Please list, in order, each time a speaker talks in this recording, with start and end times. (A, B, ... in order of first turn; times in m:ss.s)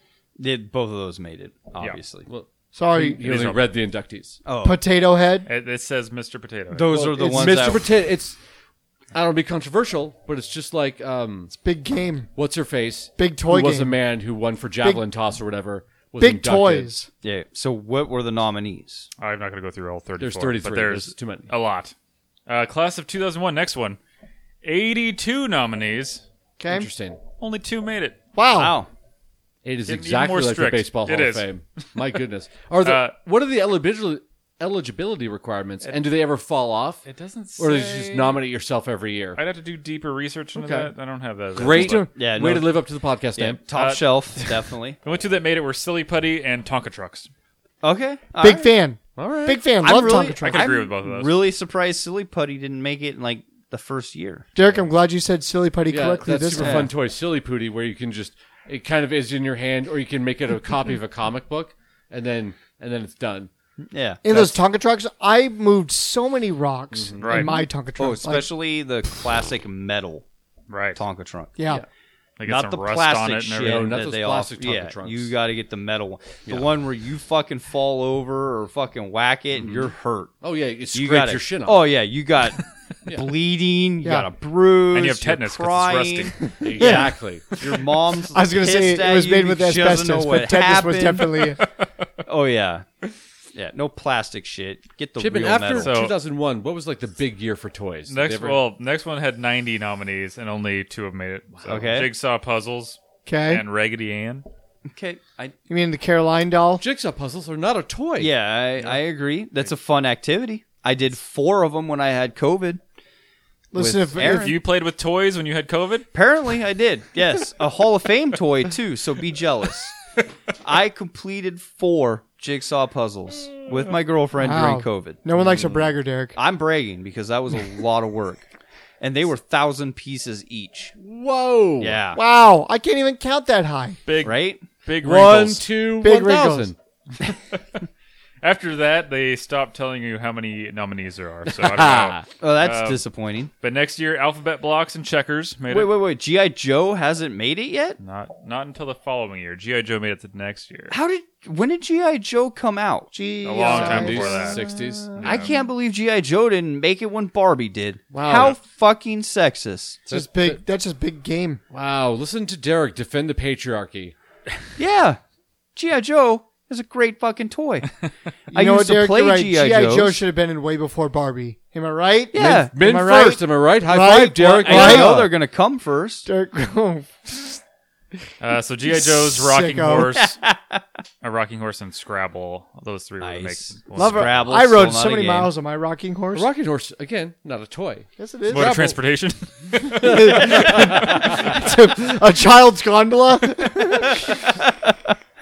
0:00.4-0:02.2 A
0:02.3-0:04.4 B
0:02.7-0:03.3 C
0:03.2-0:03.6 D
0:04.4-0:04.8 A
0:04.6-0:05.5 C
0:05.4-0:07.0 D
0:06.7-0:07.9 A
0:06.9-0:08.4 B
0:07.1-0:07.7 C
0:09.1-0:11.5 B
0:11.6-0:12.3 C
0:12.3-0:16.9 B
0:13.2-0:13.9 C
0:16.2-0:17.1 C
0:17.2-0:19.1 A
0:19.2-0:21.9 D
0:20.2-0:21.5 B
0:22.5-0:24.0 D
0:24.6-0:26.2 D
0:26.6-0:26.9 C
0:26.7-0:27.2 B
0:27.4-0:28.2 D
0:28.3-0:28.7 C
0:28.5-0:28.9 A
0:29.6-0:37.0 B
0:29.8-0:32.0 D
0:32.8-0:33.1 D
0:37.0-0:38.4 D
0:37.6-0:39.4 B
0:39.4-0:42.1 D
0:40.5-0:40.9 B
0:41.5-0:43.6 B
0:42.1-0:42.8 A
0:43.4-0:45.0 A
0:43.7-0:47.3 D
0:47.8-0:48.7 A
0:48.4-0:50.7 C
0:49.2-0:49.7 B
0:49.8-0:54.4 A
0:50.0-0:51.4 D
0:54.5-0:56.9 C
0:55.9-1:03.5 B
0:56.6-0:56.9 A
1:03.9-1:04.5 A
1:04.2-1:08.5 C
1:06.9-1:07.5 B
1:07.2-1:07.6 D
1:08.0-1:10.2 A
1:10.7-1:11.0 D
1:11.0-1:11.5 A
1:11.6-1:11.8 C
1:12.4-1:14.0 D
1:12.4-1:20.3 A
1:13.6-1:15.3 B
1:19.6-1:19.9 B
1:20.4-1:21.8 B
1:20.9-1:31.5 A
1:23.0-1:23.3 B
1:24.0-1:24.3 C
1:24.9-1:26.4 D
1:26.6-1:27.5 B
1:26.8-1:27.1 C
1:28.3-1:31.6 C
1:32.2-1:32.9 A
1:33.5-1:35.9 A
1:35.2-1:38.6 B
1:35.8-1:36.2 D
1:38.1-1:44.4 D
1:41.5-1:41.9 B
1:41.7-1:42.1 A
1:43.3-1:43.6 C
1:44.9-1:45.5 A
1:45.7-1:46.8 C
1:46.8-1:48.3 B
1:48.2-1:52.8 A
1:53.7-1:54.5 C
1:53.8-1:54.5 A
1:54.2-1:56.1 D
1:56.1-2:00.0 A
2:00.6-2:05.2 A
2:04.4-2:06.4 C
2:05.4-2:05.8 B
2:06.4-2:08.4 A
2:09.0-2:10.9 A
2:11.0-2:12.0 B
2:11.8-2:12.2 A
2:12.1-2:14.0 C
2:14.0-2:15.7 D
2:14.2-2:14.6 A
2:15.0-2:16.8 B
2:16.0-2:16.7 C
2:18.4-2:23.0 D
2:21.4-2:22.2 B
2:22.4-2:23.5 A
2:23.6-2:25.9 D
2:25.7-2:28.0 A
2:28.0-2:30.9 D
2:30.9-2:33.1 A
2:33.1-2:34.5 C
2:33.4-2:34.6 D
2:33.7-2:35.3 B
2:34.6-2:40.0 A
2:35.2-2:35.6 D
2:38.1-2:38.6 B
2:40.0-2:40.6 B
2:40.1-2:41.6 C
2:41.7-2:44.1 B
2:44.8-2:45.2 A
2:45.7-2:50.2 A
2:48.5-2:55.3 C
2:52.3-2:52.7 A
2:52.3-2:55.3 B
2:54.6-2:56.3 A
2:56.2-2:57.6 C
2:58.4-3:00.4 D
2:58.8-3:00.1 C
3:00.2-3:00.8 A
3:01.2-3:04.5 D
3:03.2-3:05.5 A
3:04.0-3:06.5 C
3:06.3-3:09.0 B
3:08.2-3:08.8 C
3:08.5-3:11.5 D
3:10.0-3:14.2 C
3:10.1-3:11.0 B
3:14.1-3:15.2 A